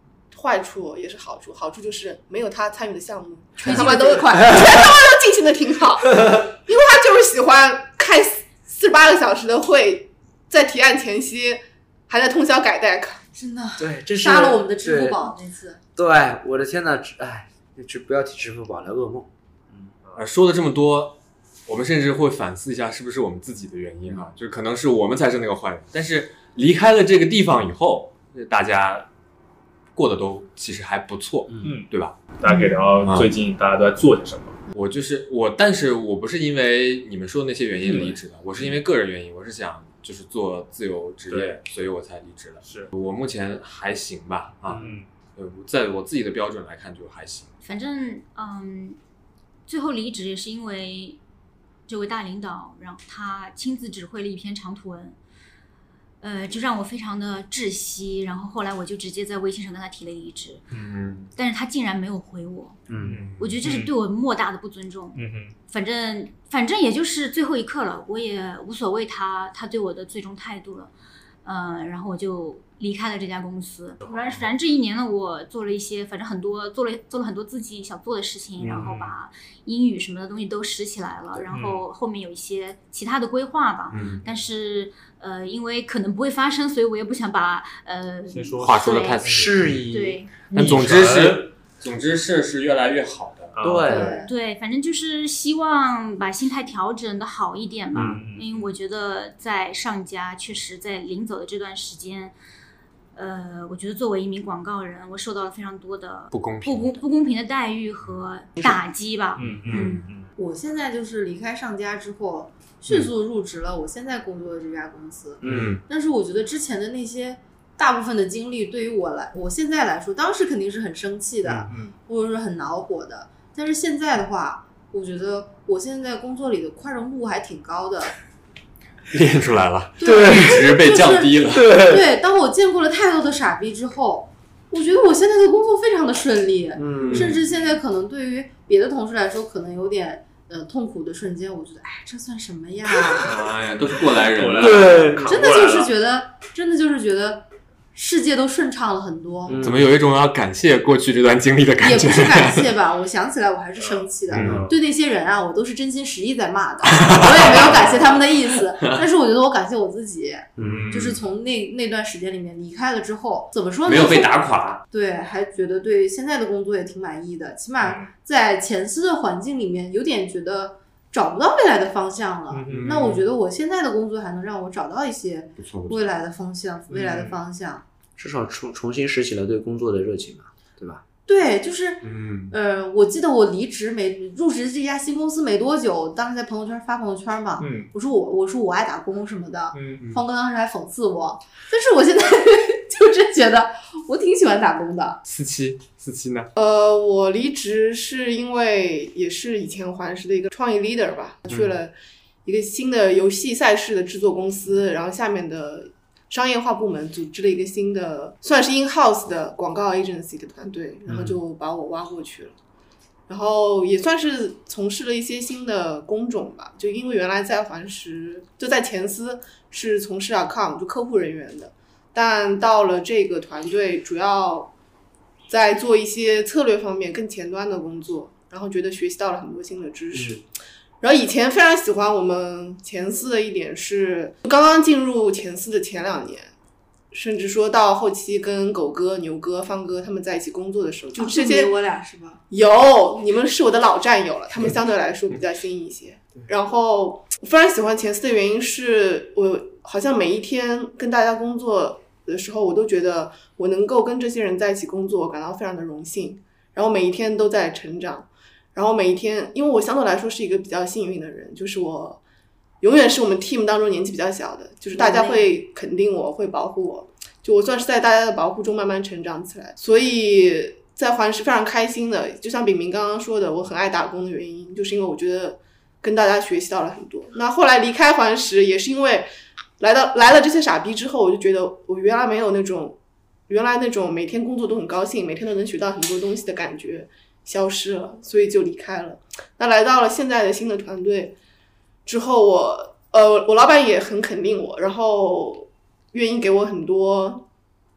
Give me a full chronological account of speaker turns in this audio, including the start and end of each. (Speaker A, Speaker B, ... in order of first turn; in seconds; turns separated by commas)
Speaker A: 0.3-13.2, Speaker B: 3.6-4.6, Speaker B: 13.3-15.8, Speaker C: 13.8-15.2, Speaker C: 15.9-19.9, Speaker D: 20.1-29.1, Speaker D: 29.9-32.3, Speaker E: 31.6-34.6, Speaker D: 33.0-33.3, Speaker D: 34.7-44.8, Speaker E: 37.8-38.8, Speaker E: 41.3-41.5, Speaker E: 42.6-42.9, Speaker C: 44.7-45.0, Speaker E: 44.7-45.0, Speaker D: 45.4-47.5, Speaker F: 47.6-49.0, Speaker F: 49.7-51.2, Speaker F: 51.9-55.2, Speaker F: 56.2-60.6, Speaker D: 60.7-61.3, Speaker F: 61.3-62.8, Speaker C: 62.9-63.2, Speaker E: 63.0-63.9, Speaker D: 63.1-63.9, Speaker F: 63.4-70.9, Speaker E: 65.1-65.5, Speaker F: 71.4-89.2, Speaker C: 78.6-78.9, Speaker E: 78.7-79.1, Speaker E: 81.5-81.8, Speaker D: 83.9-84.2, Speaker E: 88.3-89.7, Speaker D: 88.6-89.8, Speaker C: 89.2-91.4, Speaker F: 89.9-90.3, Speaker D: 90.5-93.5, Speaker E: 90.6-91.1, Speaker E: 93.5-94.2, Speaker C: 93.6-94.2, Speaker B: 93.8-94.3, Speaker F: 94.2-102.3, Speaker C: 97.9-98.3, Speaker E: 98.0-98.6, Speaker F: 103.1-110.1, Speaker D: 106.3-107.0, Speaker E: 109.3-110.3, Speaker C: 109.4-109.7, Speaker D: 109.5-110.0, Speaker B: 110.3-128.1, Speaker C: 115.4-115.8, Speaker D: 115.4-115.8, Speaker C: 121.4-121.7, Speaker E: 121.7-121.9, Speaker D: 129.1-131.7, Speaker B: 130.0-143.5, Speaker C: 130.0-130.7, Speaker C: 131.5-132.0, Speaker C: 136.8-137.4, Speaker D: 137.0-137.4, Speaker D: 143.1-145.1, Speaker E: 143.5-145.9, Speaker C: 144.6-145.3, Speaker B: 145.2-149.6, Speaker C: 149.5-149.9, Speaker D: 149.5-152.7, Speaker B: 151.8-177.8, Speaker E: 153.8-154.8, Speaker D: 154.3-154.6, Speaker D: 157.0-158.2, Speaker C: 160.6-161.0, Speaker E: 160.6-161.2, Speaker D: 163.8-164.8, Speaker E: 167.8-168.1, Speaker E: 172.5-173.2, Speaker D: 172.7-173.2, Speaker D: 175.6-176.0, Speaker E: 176.9-177.4, Speaker C: 178.2-181.0, Speaker B: 181.3-195.2, Speaker D: 182.0-182.5, Speaker E: 187.6-187.9, Speaker E: 189.7-190.0, Speaker D: 195.2-196.5, Speaker A: 196.6-201.9, Speaker A: 202.4-212.5, Speaker A: 213.3-224.7, Speaker A: 225.5-230.4, Speaker C: 230.1-230.4, Speaker A: 231.0-236.5, Speaker A: 237.1-241.7, Speaker B: 241.2-242.4, Speaker A: 242.5-262.2, Speaker A: 262.8-291.4, Speaker B: 264.9-265.6, Speaker A: 292.1-297.5